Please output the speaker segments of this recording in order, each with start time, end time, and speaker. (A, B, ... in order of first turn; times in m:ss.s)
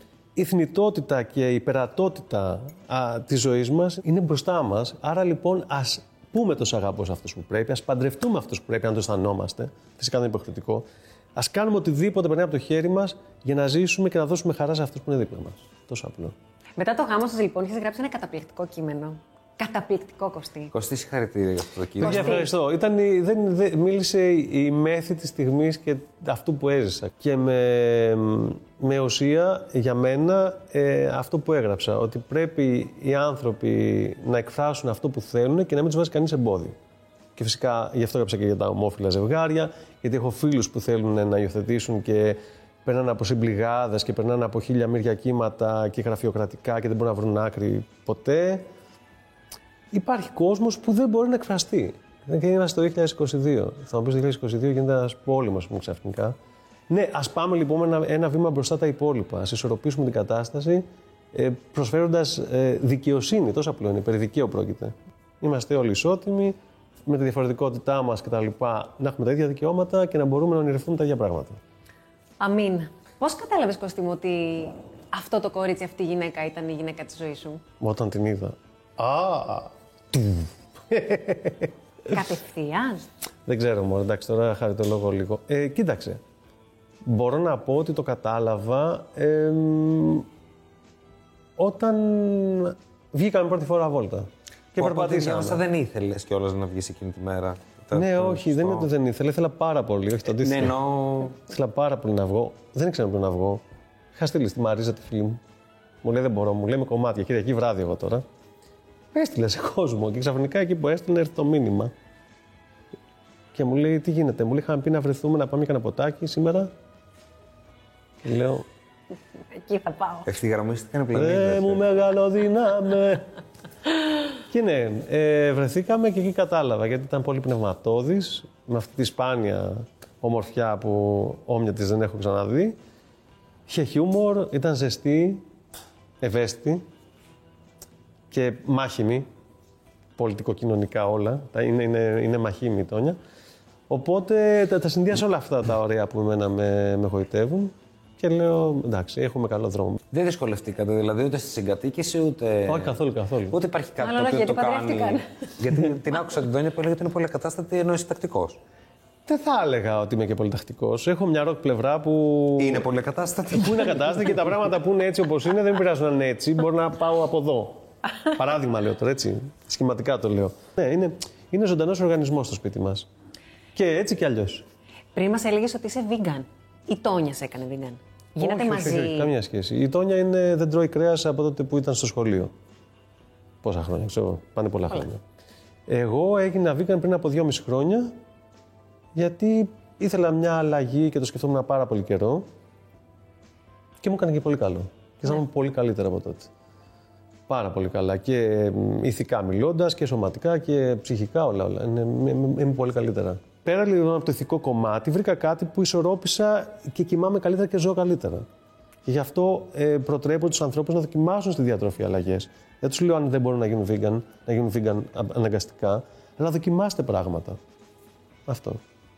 0:00.4-0:16.3 A
0:16.8-0:20.7 B
0:20.7-0:22.4 C
0:22.0-0:36.8 A
0:22.0-0:22.5 B
0:37.4-0:48.7 A
0:49.9-0:56.4 A
0:56.9-1:06.6 A
1:07.1-1:11.6 A
1:12.4-1:17.6 B
1:17.8-1:21.7 A
1:22.1-1:23.0 B
1:23.5-1:26.2 A
1:27.0-1:30.3 A
1:31.6-1:35.6 A
1:34.8-1:38.9 C
1:37.9-1:40.8 A
1:40.4-1:41.4 C
1:41.4-1:43.6 A
1:44.2-1:45.4 A
1:46.0-1:48.2 A
1:49.1-1:51.9 A
1:53.6-1:56.7 A
1:58.2-1:58.6 A
1:59.5-2:00.3 B
2:00.3-2:01.8 C
2:01.1-2:03.3 A
2:04.5-2:12.8 A
2:13.7-2:15.4 A
2:16.2-2:16.8 A
2:18.3-2:19.2 A
2:20.2-2:23.2 A
2:23.9-2:30.0 A
2:30.1-2:33.0 C
2:32.7-2:33.6 A
2:33.5-2:38.6 C
2:34.0-2:35.3 B
2:39.3-2:42.9 A
2:42.6-2:44.4 C
2:43.5-2:53.1 A
2:53.8-2:54.7 A
2:55.1-2:59.3 B
2:58.4-3:02.5 A
3:03.6-3:05.2 A
3:05.9-3:08.1 A
3:09.2-3:12.5 A
3:14.0-3:16.5 A
3:17.5-3:28.4 A
3:29.0-3:37.6 A
3:38.5-3:38.8 A